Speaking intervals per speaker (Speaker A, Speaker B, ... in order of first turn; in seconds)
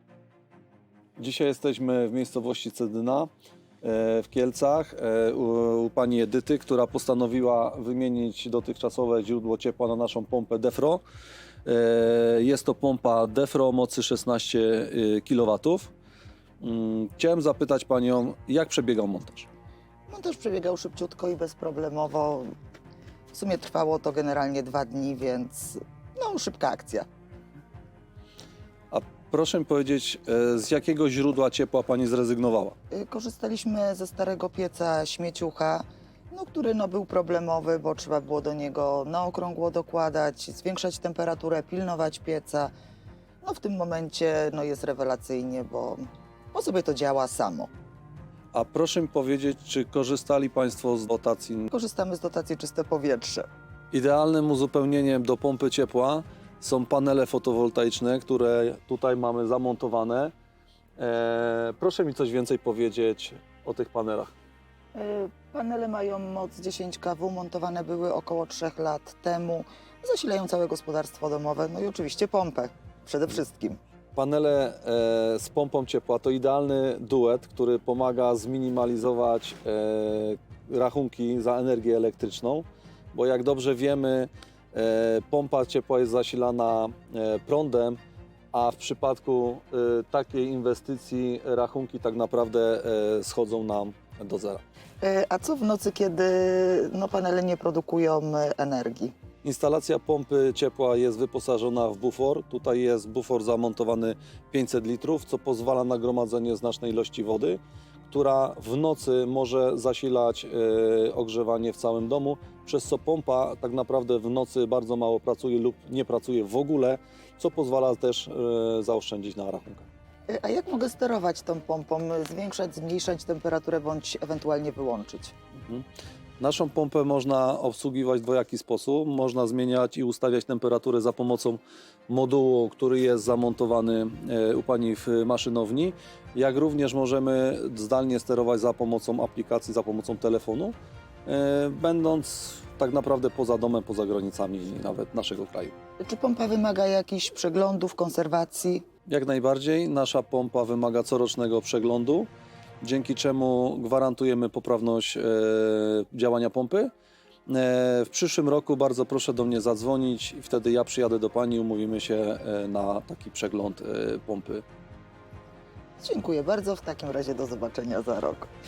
Speaker A: 1.2-3.3, 3.8-11.0, 11.6-15.9, 16.6-19.5, 28.9-32.8, 48.5-51.7, 53.9-60.3, 61.0-64.3, 74.2-88.0, 88.5-94.6, 99.4-119.8, 126.4-140.7, 141.2-145.7, 149.1-152.3, 152.8-156.9, 157.5-164.6
Speaker B: 20.1-22.5, 23.3-27.1, 32.9-42.7, 43.4-47.7, 51.7-53.5, 64.9-73.8, 95.0-99.1, 120.3-125.3, 146.0-148.8, 166.0-168.5